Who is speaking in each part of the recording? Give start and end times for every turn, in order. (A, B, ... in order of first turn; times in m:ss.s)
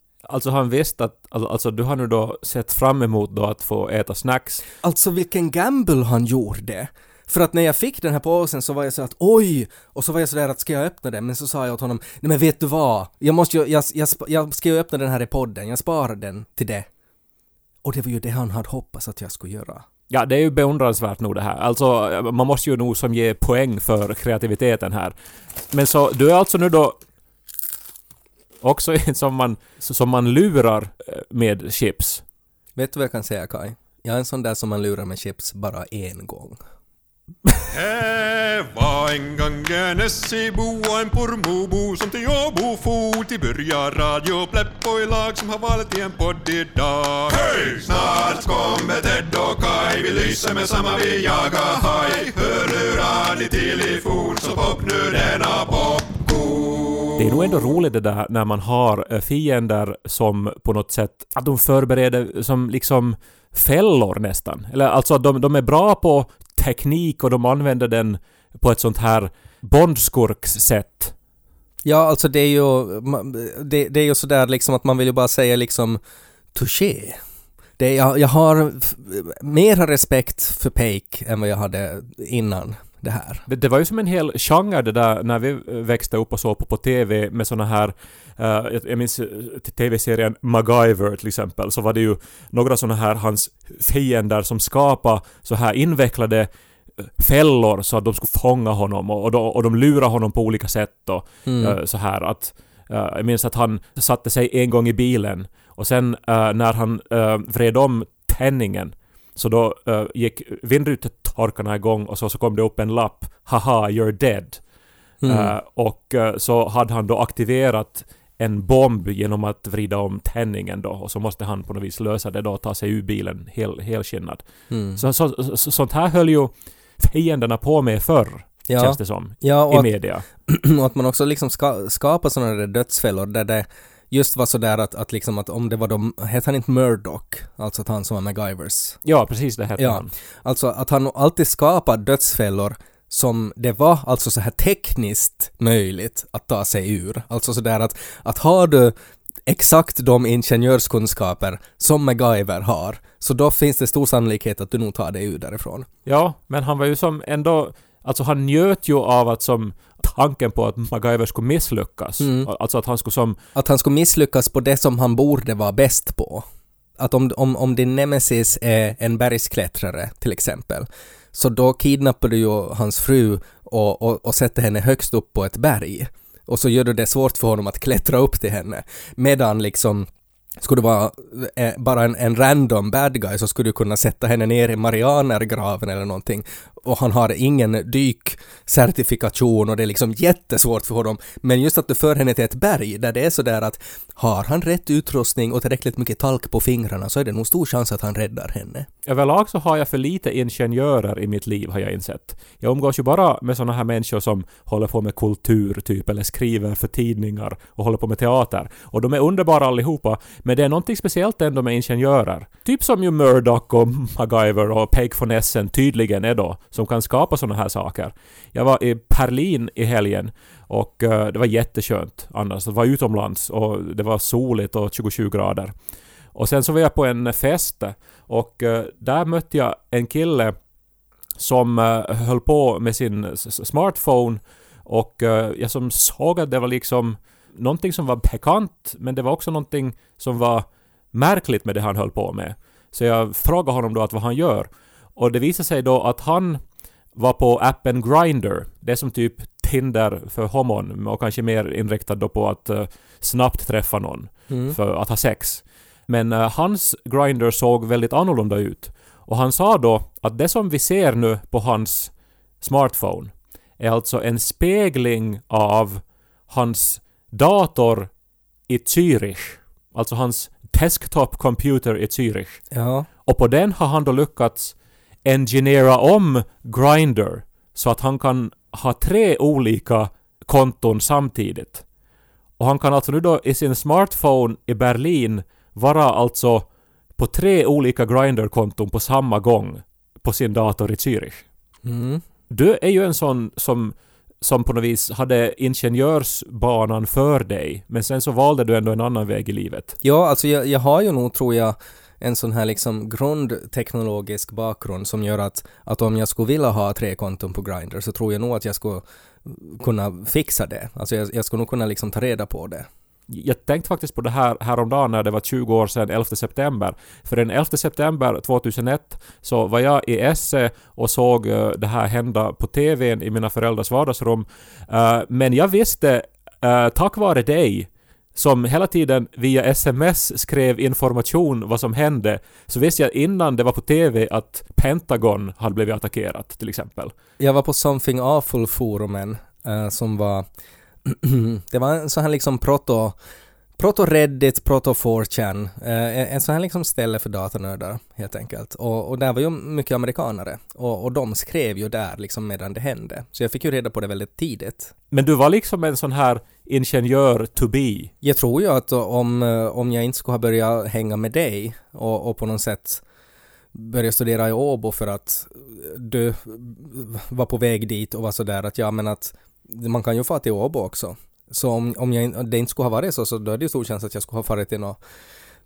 0:00.3-0:04.6 A
0:04.8-0:16.9 B
0:17.8-0:19.9 B
0:20.1-0:25.1 A
0:25.7-0:27.0 A
0:28.6-0:32.2 A
0:32.8-0:36.6 B
0:37.7-0:57.1 C
0:57.2-1:11.1 A
1:11.8-1:16.0 B
1:16.5-1:17.2 B
1:17.8-1:23.4 B
1:23.5-1:54.6 A
1:41.4-1:41.8 B
1:55.2-1:55.5 B
1:55.2-2:04.4 A
2:04.7-2:05.0 B
2:05.0-2:10.3 A
2:08.7-2:19.0 B
2:19.0-2:20.1 A
2:19.8-2:29.0 B
2:29.5-2:35.9 B
2:36.1-2:43.4 A
2:42.2-2:42.5 B
2:43.6-2:46.5 B
2:47.0-3:00.1 B
3:00.6-3:18.9 B
3:19.1-3:45.7 A
3:46.3-3:50.6 A
3:51.4-4:06.6 A
4:07.1-4:28.1 A
4:14.5-4:14.8 B
4:28.7-4:32.6 A
4:32.7-4:33.1 B
4:33.2-4:41.8 A
4:42.6-4:51.5 A
4:51.8-4:52.2 B
4:52.5-5:00.0 A
5:00.0-5:12.9 B
5:13.3-5:37.2 A
5:37.4-5:40.5 B
5:41.0-5:43.2 B
5:43.8-5:54.9 B
5:55.1-5:58.1 A
5:58.2-6:03.0 B
6:03.7-6:15.0 B